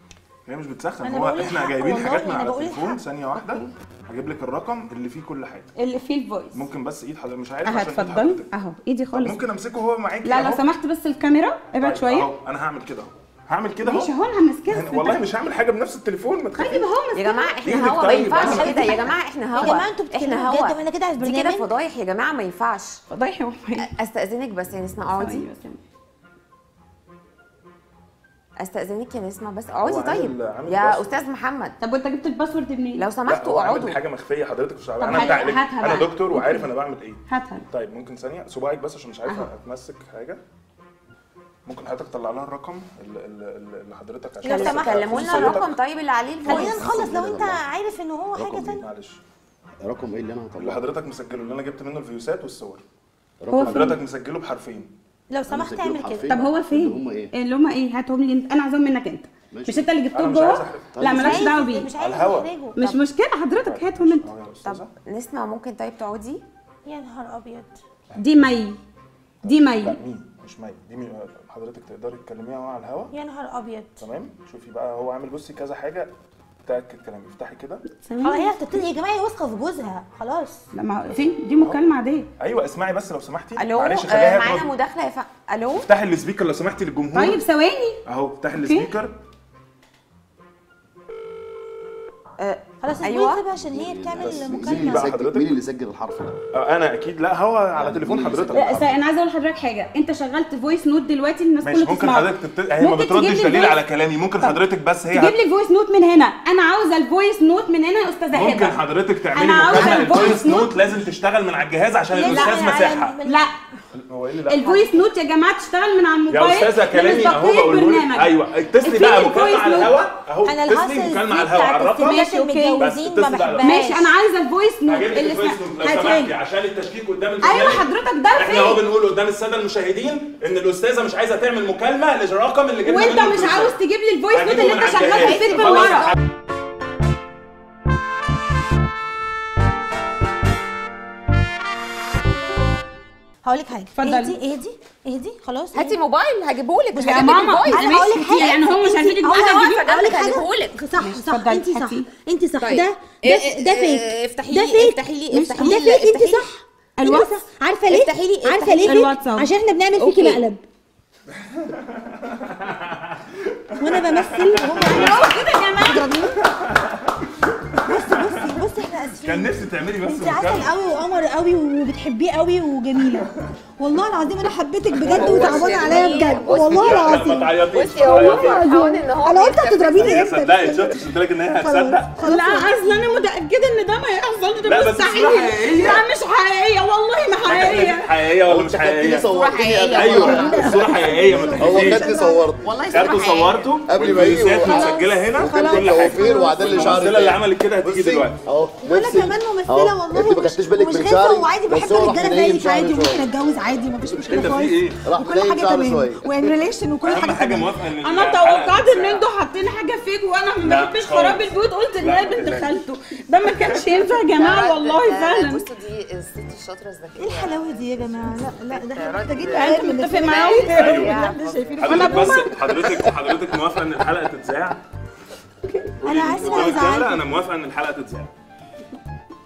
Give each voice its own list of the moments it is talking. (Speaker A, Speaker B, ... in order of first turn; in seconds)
Speaker A: 0.5-5.7, 6.5-8.5, 9.1-10.6, 11.8-14.1, 14.7-16.9, 17.6-19.0, 29.8-31.1, 33.3-40.4, 41.7-45.7, 48.8-49.2, 50.6-52.8, 53.6-54.9, 60.1-61.1, 62.0-62.5, 63.6-64.9, 69.4-73.1, 74.0-76.1, 76.7-77.8, 82.4-84.7, 85.8-87.4, 88.0-89.2, 94.2-95.5, 96.5-98.9, 101.6-105.4, 108.3-113.2, 113.9-114.7, 116.3-122.2, 122.8-123.7, 124.8-133.8, 134.3-136.1, 161.6-165.3, 166.5-166.9, 167.9-168.3, 169.2-170.7, 175.0-178.6, 179.9-182.1, 184.6-186.0, 187.4-189.3, 189.9-192.1, 192.9-198.4, 204.3-205.0, 207.0-209.3, 210.6-212.8, 220.7-221.2, 221.8-224.8, 226.0-228.3
Speaker B: 1.0-3.0, 18.4-21.7, 44.4-45.6, 46.4-48.8, 55.3-56.3, 61.1-62.8, 66.8-67.8, 73.1-74.0, 78.2-80.6, 92.8-95.1, 109.7-110.4, 112.1-113.4, 120.4-124.1, 135.4-136.1, 143.4-146.0, 146.9-160.6, 163.8-166.4, 167.8-173.3, 173.8-177.5, 178.0-181.0, 181.5-183.1, 190.2-192.5, 194.6-197.0, 198.8-207.7, 217.2-222.4, 226.0-227.2
Speaker C: 3.4-3.6, 5.8-6.7, 7.6-9.4, 10.2-12.3, 13.8-15.2, 16.6-17.5, 23.1-23.9, 25.2-25.8, 31.8-33.0, 35.0-36.7, 37.3-37.6, 39.2-39.5, 53.5-54.0, 56.3-61.9, 62.8-64.3, 68.2-68.8, 69.4-70.0, 77.9-78.5, 80.7-82.3, 87.1-88.0, 88.5-88.9, 98.5-103.8, 105.1-108.8, 109.3-110.7, 112.3-112.5, 113.2-113.5, 114.5-118.3, 118.8-119.9, 122.0-122.9, 123.6-126.3, 127.4-128.8, 132.8-136.1, 144.0-144.4, 147.0-149.8, 151.0-152.1, 157.0-157.3, 158.8-159.5, 164.8-166.1, 182.2-188.1, 208.0-215.6, 219.5-221.2, 221.8-222.5, 225.7-226.0
Speaker D: 17.1-23.0, 23.8-25.5, 28.6-31.7, 33.0-34.0, 44.4-46.9, 64.6-66.4, 83.5-85.9, 92.4-93.4, 114.7-114.9, 145.7-148.6, 149.2-150.8, 152.6-156.5, 157.9-159.1, 159.9-160.4, 175.1-180.2, 189.3-191.5, 192.6-193.7, 214.3-222.3, 222.8-223.1, 226.3-226.8
Speaker E: 46.6-47.6, 48.3-48.8, 49.8-50.8, 53.4-54.0, 55.5-57.3, 59.5-59.9, 60.9-61.5, 93.5-96.4, 97.8-98.5, 188.4-191.0, 191.6-193.1, 193.9-203.3, 204.3-206.2